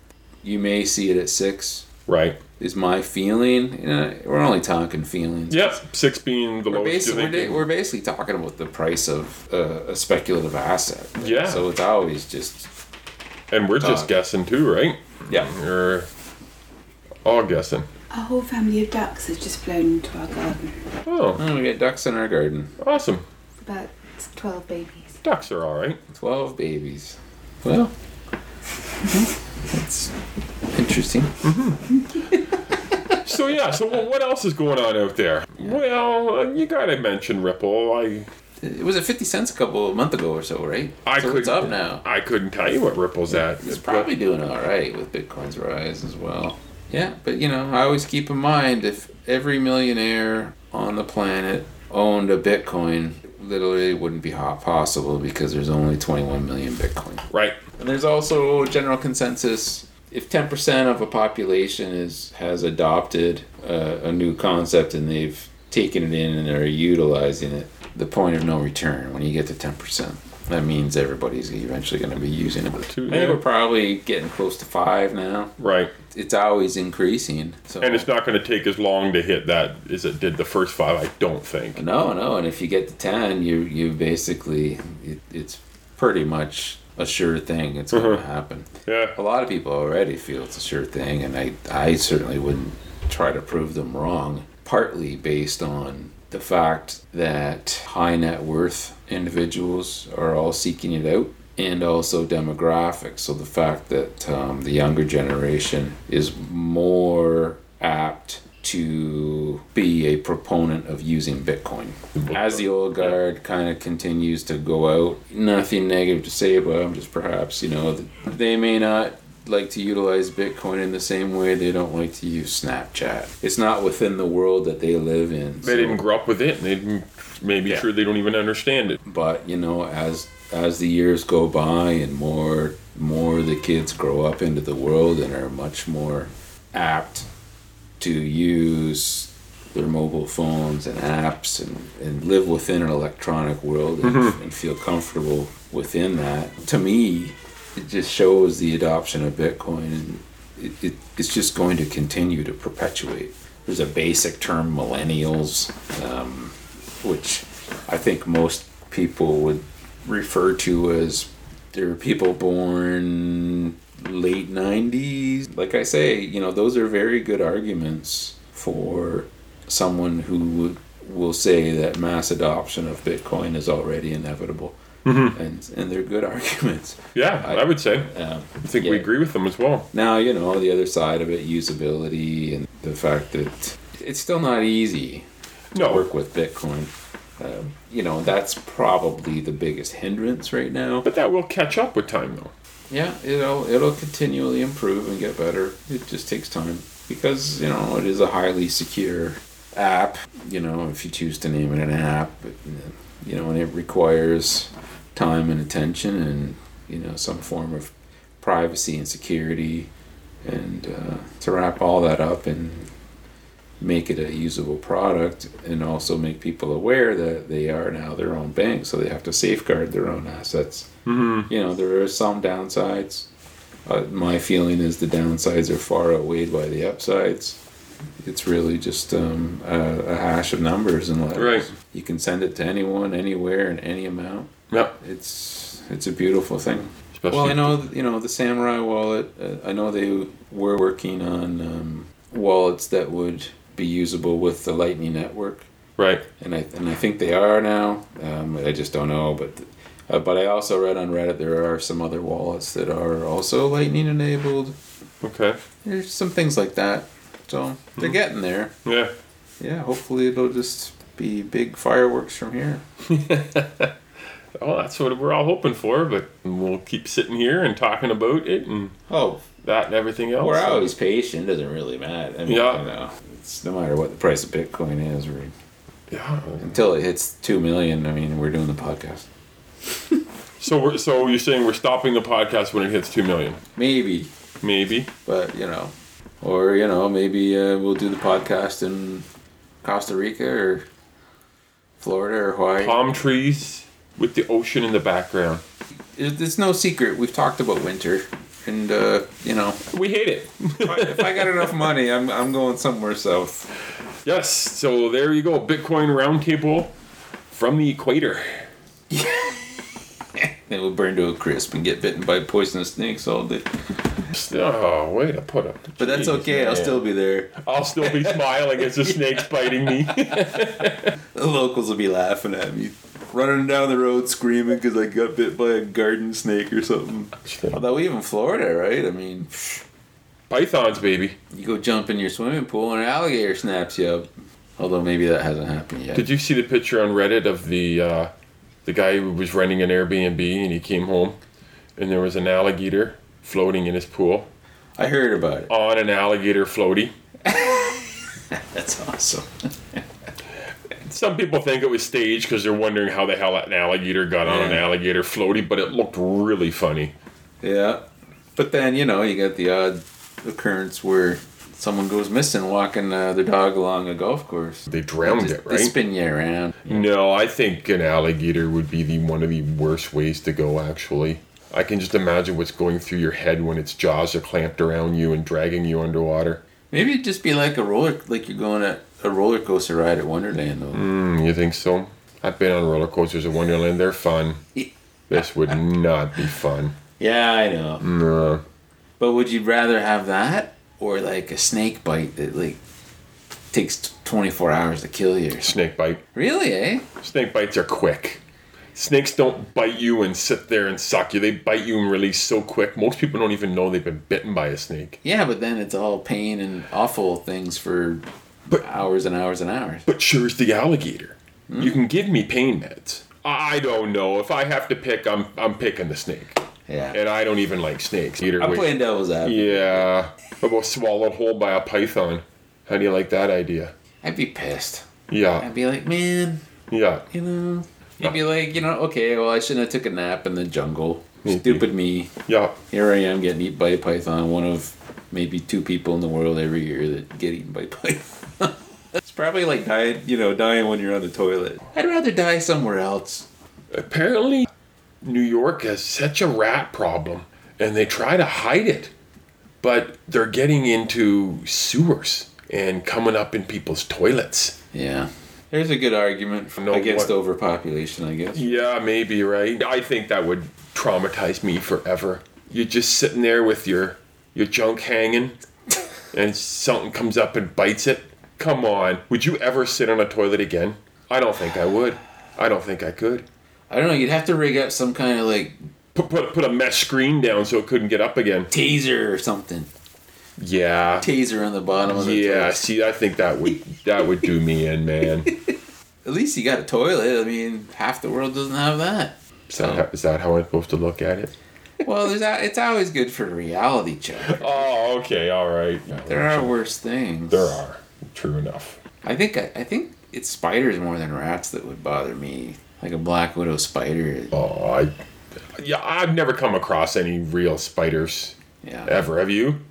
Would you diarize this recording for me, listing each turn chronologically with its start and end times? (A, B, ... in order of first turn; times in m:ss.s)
0:00.4-0:01.9 A
0:02.1-0:02.4 B
0:02.6-0:05.8 A
0:05.5-0:07.6 B
0:06.6-0:12.7 A
0:11.2-0:11.6 B
0:13.5-0:16.1 B
0:13.8-0:14.1 A
0:17.2-0:17.9 B
0:18.1-0:20.8 C
0:21.0-0:21.4 B
0:21.4-0:22.8 A
0:22.8-0:23.2 B
0:23.6-0:25.2 C
0:25.2-0:26.0 B
0:26.1-0:27.9 A
0:29.0-0:30.1 A
0:30.7-0:31.5 A
0:31.4-0:31.8 B
0:32.1-0:33.2 A
0:33.2-0:38.3 B
0:38.6-0:42.0 A
0:41.0-0:44.1 B
0:43.4-0:57.2 A
0:57.3-0:57.6 B
0:57.8-1:15.6 A
1:12.9-1:13.4 B
1:15.6-1:15.9 B
1:16.1-1:18.1 A
1:17.8-1:21.8 B
1:21.8-2:06.0 A
1:27.9-1:28.2 B
1:28.8-1:29.2 B
1:52.1-1:53.2 B
2:05.6-2:09.0 B
2:09.0-2:17.3 A
2:18.0-2:59.1 A
2:24.0-2:24.4 B
2:55.0-2:55.3 B
2:57.1-2:58.1 B
2:58.6-2:59.9 B
2:59.9-3:11.1 A
3:05.7-3:06.0 B
3:11.0-3:12.5 B
3:12.9-3:29.9 A
3:30.4-3:32.9 A
3:33.8-3:40.9 A
3:41.0-3:41.5 B
3:41.5-3:43.3 A
3:43.9-3:47.6 A
3:48.2-4:05.7 A
3:51.3-3:51.7 B
3:54.7-3:55.0 B
3:57.1-3:57.8 B
4:06.0-4:06.2 B
4:06.4-4:14.8 A
4:15.2-4:15.6 B
4:15.8-4:18.7 A
4:18.8-4:19.1 B
4:19.6-4:22.8 A
4:23.0-4:23.9 B
4:24.5-4:29.0 B
4:29.1-4:29.4 A
4:29.6-4:30.9 B
4:30.4-4:35.5 A
4:32.4-4:32.8 B
4:36.1-4:36.7 B
4:36.6-4:39.3 A
4:40.6-4:43.6 B
4:43.8-4:44.3 A
4:44.6-4:45.1 B
4:45.2-4:49.2 A
4:49.8-4:50.8 A
4:52.0-4:53.0 A
4:52.8-4:55.6 B
4:56.2-4:59.8 A
4:59.9-5:01.9 B
5:00.8-5:03.7 A
5:04.2-5:06.9 B
5:07.5-5:08.7 B
5:09.1-5:09.7 A
5:10.4-5:13.7 A
5:14.3-5:17.0 B
5:16.0-5:18.4 A
5:17.6-5:21.1 B
5:20.1-5:29.8 A
5:27.4-5:27.8 B
5:30.5-5:31.4 B
5:31.5-5:36.3 A
5:36.1-5:38.3 B
5:38.8-5:41.4 B
5:42.0-5:44.5 B
5:45.0-5:45.7 A
5:45.7-5:47.1 B
5:47.4-5:50.0 A
5:51.0-5:57.1 B
5:54.4-5:54.8 A
5:57.6-5:58.0 A
5:58.6-6:07.0 A
6:04.9-6:05.9 B
6:06.9-6:16.6 B
6:16.9-6:21.0 A
6:20.9-6:24.6 B
6:24.7-6:25.8 A
6:25.3-6:27.0 B
6:27.2-6:28.0 A
6:28.0-6:28.6 B
6:29.2-6:32.8 A
6:33.7-6:35.7 A
6:35.6-6:36.2 B
6:36.3-6:37.1 A
6:37.2-6:38.4 B
6:38.9-6:45.2 B
6:45.2-6:48.2 A
6:48.8-6:50.0 A
6:50.1-6:56.6 B
6:51.7-6:52.0 A
6:56.9-6:57.2 A
6:57.1-7:03.9 B
6:58.6-7:00.1 A
7:04.2-7:05.1 A
7:05.3-7:05.6 B
7:05.6-7:06.6 A
7:06.9-7:07.2 B
7:07.3-7:12.3 A
7:11.4-7:11.8 B
7:12.4-7:12.8 B
7:12.8-7:23.4 A
7:23.9-7:24.7 B
7:25.2-7:29.1 B
7:29.8-7:34.8 B
7:34.9-7:38.7 A
7:36.8-7:37.3 B
7:38.5-7:45.6 B
7:46.3-7:53.4 B
7:53.9-7:55.7 A
7:56.1-7:58.7 B
7:58.7-7:59.9 A
8:00.6-8:01.3 B
8:01.2-8:02.8 A
8:02.0-8:05.5 B
8:06.2-8:10.0 A
8:09.7-8:11.5 B
8:12.0-8:14.9 A
8:14.4-8:16.7 B
8:16.2-8:17.8 A
8:17.5-8:19.0 B
8:19.2-8:24.6 A
8:24.5-8:25.1 B
8:25.7-8:29.8 B
8:28.8-8:29.2 A